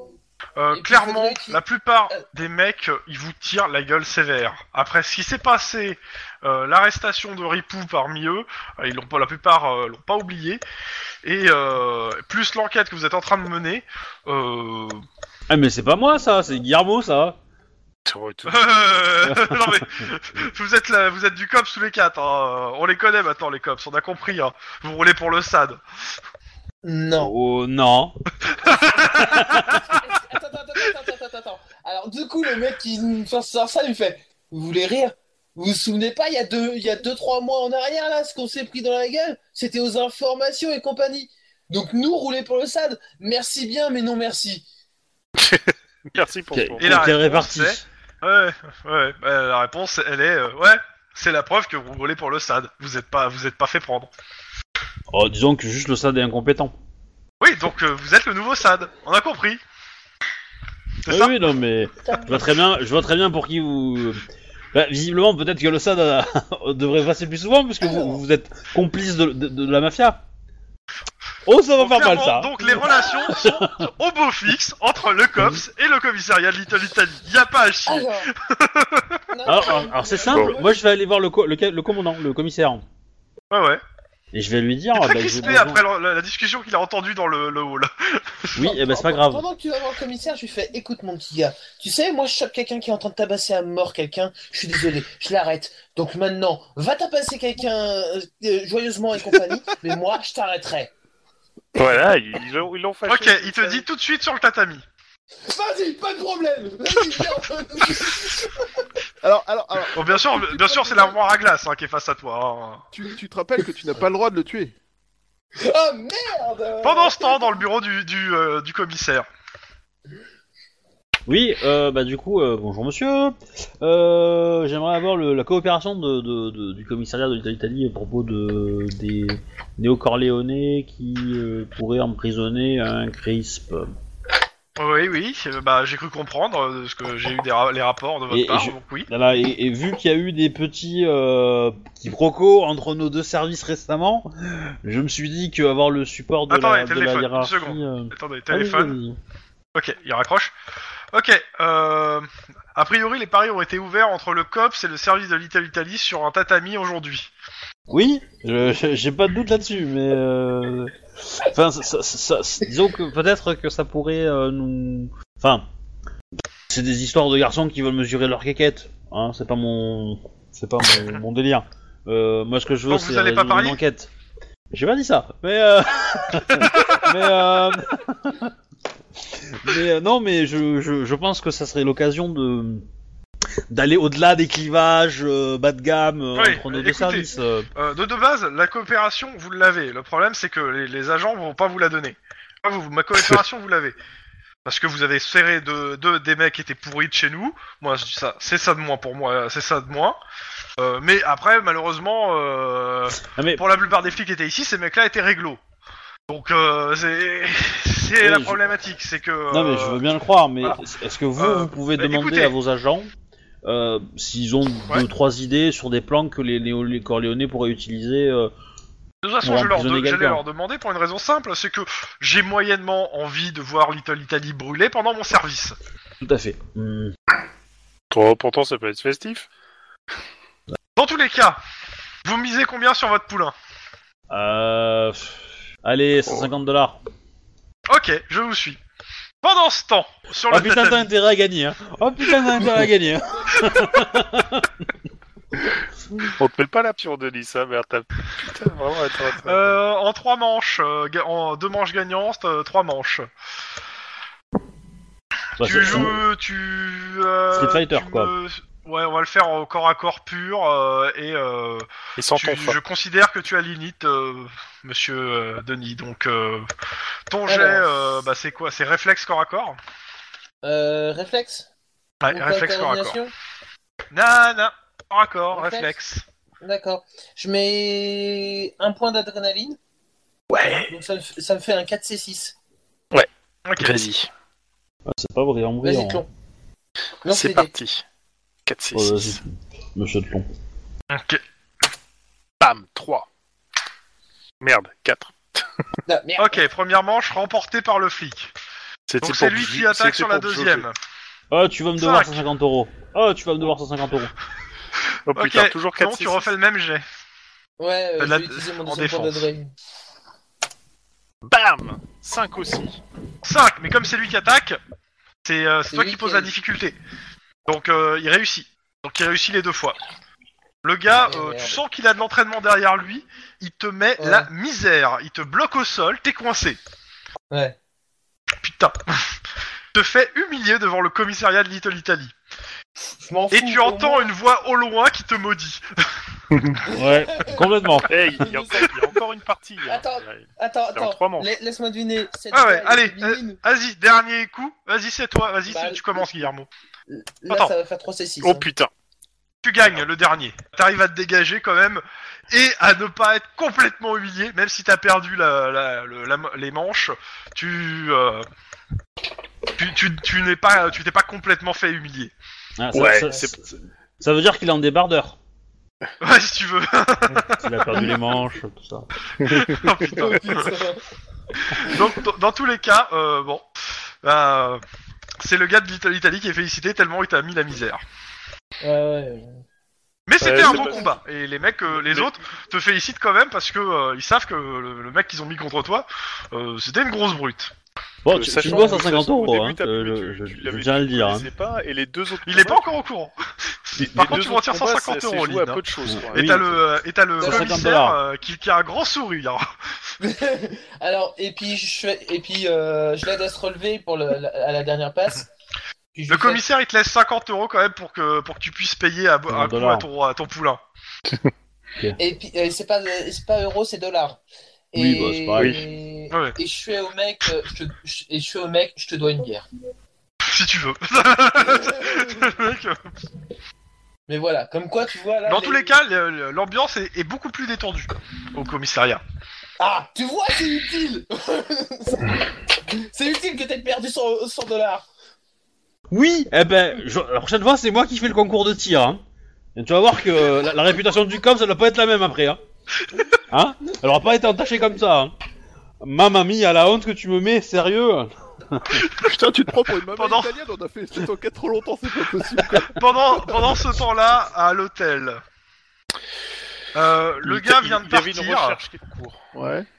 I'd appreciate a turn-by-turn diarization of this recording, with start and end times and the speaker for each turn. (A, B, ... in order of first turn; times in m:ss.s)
0:00.6-0:10.6 A
0:00.7-0:02.2 B
0:11.2-0:15.0 A
0:15.5-0:17.4 C
0:18.0-0:19.0 D
0:18.5-0:25.8 A
0:19.2-0:20.0 C
0:26.8-0:27.3 B
0:27.2-0:28.1 C
0:28.6-0:29.4 A
0:28.6-0:44.6 B
0:29.2-0:29.7 C
0:45.4-0:47.1 D
0:46.5-0:47.8 C
0:46.8-0:54.1 A
0:55.1-0:56.7 C
0:57.4-0:59.6 A
1:01.0-1:01.4 A
1:01.1-1:10.2 C
1:02.0-1:02.4 B
1:07.8-1:08.2 B
1:11.4-1:13.8 C
1:11.8-1:19.2 A
1:12.6-1:13.4 B
1:17.8-1:18.3 B
1:19.3-1:20.8 B
1:19.4-1:22.8 C
1:23.5-1:23.8 A
1:24.3-1:25.8 C
1:24.9-1:28.5 A
1:28.5-1:29.4 C
1:28.6-1:40.9 B
1:41.7-1:43.8 D
1:43.1-1:44.8 A
1:45.4-1:48.8 B
1:49.2-1:51.2 E
1:49.9-1:52.8 A
1:52.9-1:54.7 E
1:55.6-1:57.6 B
1:56.8-1:59.2 A
2:01.3-2:13.9 C
2:14.8-2:19.1 A
2:18.3-2:29.2 C
2:26.5-2:28.9 A
2:29.7-2:30.5 A
2:31.1-2:37.3 A
2:37.9-2:45.6 C
2:46.7-2:54.1 C
2:52.9-2:53.8 A
2:54.7-2:58.5 C
2:56.6-2:57.0 A
2:59.2-3:02.8 C
3:03.7-3:07.7 C
3:06.4-3:13.9 A
3:14.6-3:20.2 A
3:20.8-3:25.6 A
3:23.2-3:23.6 C
3:26.3-3:30.0 A
3:28.2-3:28.6 C
3:29.5-3:33.1 C
3:31.4-3:32.5 A
3:33.6-3:38.5 C
3:39.2-3:45.8 A
3:39.4-3:40.4 C
3:46.2-3:47.1 C
3:48.1-3:49.5 D
3:51.0-3:51.6 A
3:52.2-3:53.5 A
3:54.3-3:57.0 C
3:57.9-3:58.8 A
3:59.4-4:01.1 A
4:00.5-4:04.7 C
4:02.5-4:02.8 A
4:06.3-4:09.8 D
4:09.4-4:13.3 A
4:15.6-4:16.2 C
4:15.6-4:26.7 A
4:17.5-4:18.3 C
4:22.2-4:22.8 D
4:27.3-4:29.8 A
4:27.5-4:27.9 B
4:30.6-4:31.7 B
4:32.2-4:33.2 A
4:32.3-4:33.3 B
4:34.1-4:36.2 A
4:35.5-4:35.9 B
4:36.6-4:39.8 B
4:40.5-4:41.0 D
4:40.9-4:42.5 B
4:43.1-4:44.3 D
4:43.6-4:44.0 A
4:45.1-4:46.2 C
4:45.8-4:46.3 B
4:47.2-4:47.7 B
4:47.3-4:48.0 D
4:48.6-4:49.4 D
4:48.9-4:49.4 C
4:50.0-4:50.5 C
4:51.1-4:51.4 A
4:52.6-4:53.3 D
4:54.6-4:55.7 D
4:56.0-4:56.6 B
4:56.4-4:58.5 A
4:59.1-5:00.8 D
4:59.2-5:00.9 A
5:01.5-5:04.3 C
5:02.0-5:02.4 A
5:05.3-5:06.5 D
5:05.3-5:07.0 A
5:07.8-5:09.7 B
5:08.2-5:09.5 A
5:11.4-5:13.0 D
5:13.4-5:14.8 A
5:15.4-5:17.0 A
5:15.9-5:16.5 B
5:17.7-5:20.0 A
5:20.8-5:26.8 A
5:21.1-5:21.8 B
5:24.2-5:24.5 B
5:27.5-5:27.8 B
5:28.6-5:29.3 A
5:29.9-5:32.3 A
5:33.0-5:34.3 B
5:33.5-5:35.8 A
5:36.5-5:36.9 D
5:36.8-5:38.9 B
5:36.9-5:38.1 C
5:38.1-5:41.5 D
5:39.8-5:43.6 B
5:42.5-5:46.7 A
5:45.7-5:46.4 B
5:47.1-5:48.7 B
5:47.5-5:47.7 A
5:48.4-5:48.9 D
5:49.6-5:58.4 A
5:59.8-6:02.3 A
6:02.8-6:05.4 C
6:02.9-6:03.6 D
6:06.2-6:08.0 A
6:07.5-6:09.1 C
6:09.4-6:10.8 A
6:09.4-6:10.2 D
6:10.2-6:11.0 B
6:11.7-6:13.6 A
6:14.2-6:14.8 A
6:15.4-6:18.0 A
6:18.8-6:19.6 B
6:20.3-6:27.7 A
6:20.4-6:21.1 D
6:20.4-6:21.1 B
6:21.9-6:22.3 D
6:28.2-6:31.5 C
6:28.3-6:33.0 D
6:28.6-6:29.0 B
6:32.4-6:35.8 A
6:34.0-6:36.8 D
6:36.1-6:36.6 C
6:36.3-6:39.7 A
6:37.4-6:37.8 B
6:37.4-6:38.2 C
6:40.2-6:45.5 B
6:46.1-6:46.6 B
6:46.3-6:50.8 A
6:49.5-6:50.0 C
6:52.2-6:54.4 B
6:54.9-6:59.7 B
6:55.0-6:55.8 C
6:55.6-6:55.8 D
6:56.3-6:56.6 A
7:00.4-7:03.0 A
7:04.3-7:05.9 B
7:05.4-7:09.2 A
7:09.8-7:15.0 B
7:16.1-7:19.2 C
7:19.8-7:22.6 C
7:23.5-7:25.3 C
7:26.0-7:29.0 C
7:29.2-7:33.8 E
7:30.1-7:30.5 A
7:32.8-7:35.4 A
7:36.9-7:38.8 A
7:37.4-7:39.5 D
7:39.5-7:39.9 E